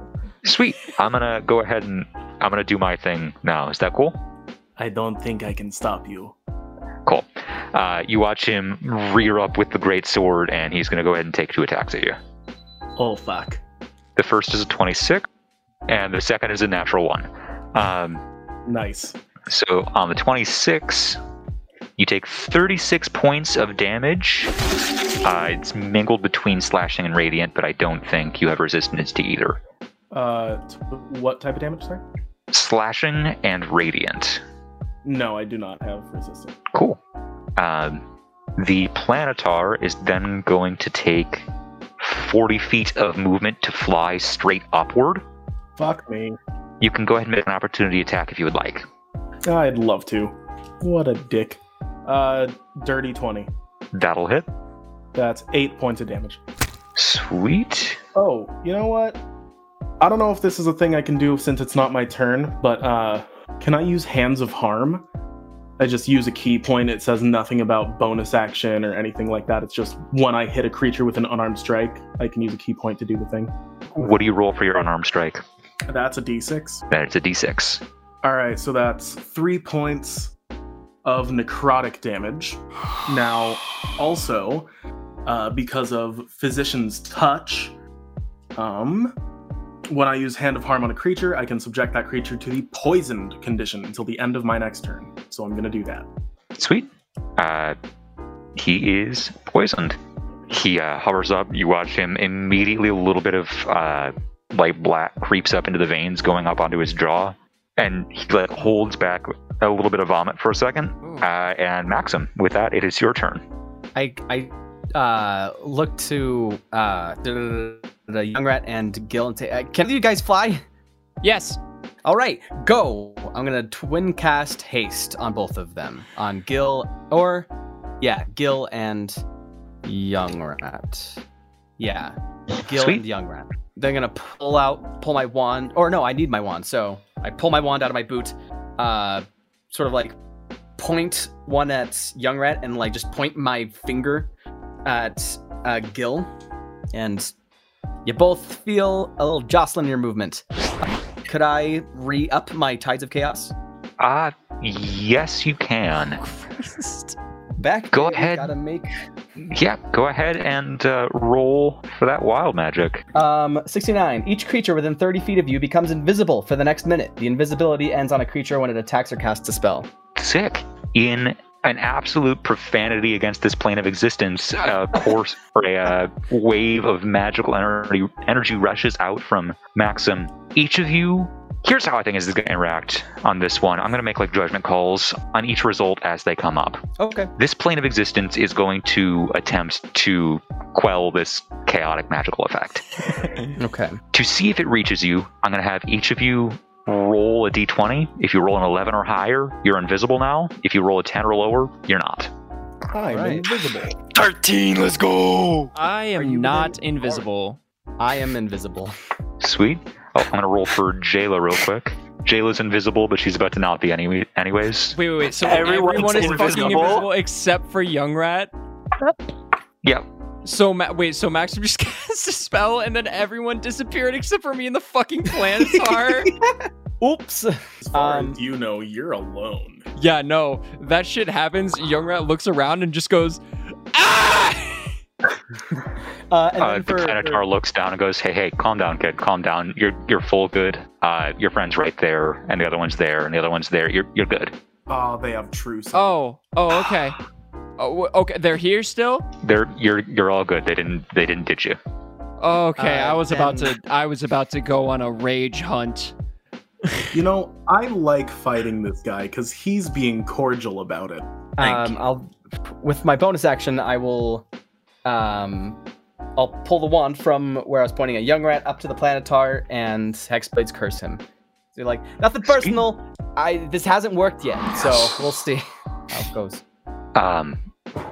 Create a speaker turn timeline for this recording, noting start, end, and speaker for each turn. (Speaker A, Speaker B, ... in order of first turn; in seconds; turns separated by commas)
Speaker A: 0.4-4.2, Speaker B: 4.8-6.3, Speaker A: 7.0-12.2, Speaker B: 13.0-13.6, Speaker A: 14.2-15.3, Speaker A: 15.9-18.2, Speaker B: 18.6-19.2, Speaker A: 19.5-21.2, Speaker A: 22.0-24.5, Speaker A: 25.2-29.6, Speaker B: 30.1-32.0, Speaker A: 32.5-34.4, Speaker B: 35.0-36.6, Speaker A: 36.7-37.0, Speaker A: 37.6-38.0, Speaker A: 38.6-41.5, Speaker A: 42.0-45.2, Speaker B: 45.8-46.4, Speaker A: 46.8-48.9, Speaker B: 49.5-53.5, Speaker A: 53.9-54.5, Speaker B: 55.1-56.4, Speaker A: 57.0-58.0, Speaker B: 58.1-59.2, Speaker B: 60.0-65.0, Speaker B: 65.8-73.5, Speaker A: 74.0-75.4, Speaker B: 75.9-76.8, Speaker A: 76.9-77.8, Speaker B: 78.2-80.3, Speaker B: 81.0-84.7, Speaker B: 85.2-87.7, Speaker B: 88.5-89.2, Speaker B: 89.9-96.1, Speaker A: 96.5-97.8, Speaker A: 98.5-100.0, Speaker A: 100.5-113.4, Speaker C: 113.9-120.6, Speaker D: 121.2-121.6, Speaker C: 122.0-127.5, Speaker C: 128.0-129.2, Speaker C: 129.8-131.2, Speaker C: 131.8-140.2, Speaker A: 132.7-133.1, Speaker C: 140.8-144.3, Speaker C: 144.8-146.3, Speaker C: 146.9-147.3, Speaker C: 148.0-153.5, Speaker A: 154.0-156.2, Speaker D: 156.1-157.2, Speaker C: 157.6-158.9, Speaker A: 157.9-158.5, Speaker A: 159.4-163.0, Speaker C: 163.1-169.9, Speaker A: 170.2-186.8, Speaker C: 187.0-187.3, Speaker A: 187.4-192.8, Speaker D: 193.2-193.5, Speaker C: 193.6-194.0, Speaker A: 194.1-202.3, Speaker B: 202.9-203.9, Speaker C: 203.1-203.5, Speaker E: 204.1-205.7, Speaker D: 205.7-207.6, Speaker C: 206.2-206.8, Speaker C: 208.0-208.9, Speaker A: 209.4-215.0, Speaker D: 214.9-218.5, Speaker E: 215.4-217.0, Speaker B: 215.4-217.1, Speaker D: 220.4-226.3, Speaker C: 226.3-228.4, Speaker B: 227.8-229.9, Speaker D: 229.9-233.4, Speaker D: 233.9-234.9, Speaker C: 236.3-237.4, Speaker A: 236.6-244.5, Speaker B: 244.9-246.1, Speaker D: 245.9-247.2, Speaker D: 247.8-249.3, Speaker A: 249.4-251.8, Speaker D: 252.4-256.1, Speaker C: 252.8-253.7, Speaker D: 256.9-257.1, Speaker B: 257.1-261.3, Speaker C: 261.6-264.4, Speaker E: 261.6-262.0, Speaker C: 265.0-265.8, Speaker C: 266.4-271.2, Speaker C: 271.7-276.6, Speaker A: 272.5-272.8, Speaker A: 277.1-277.6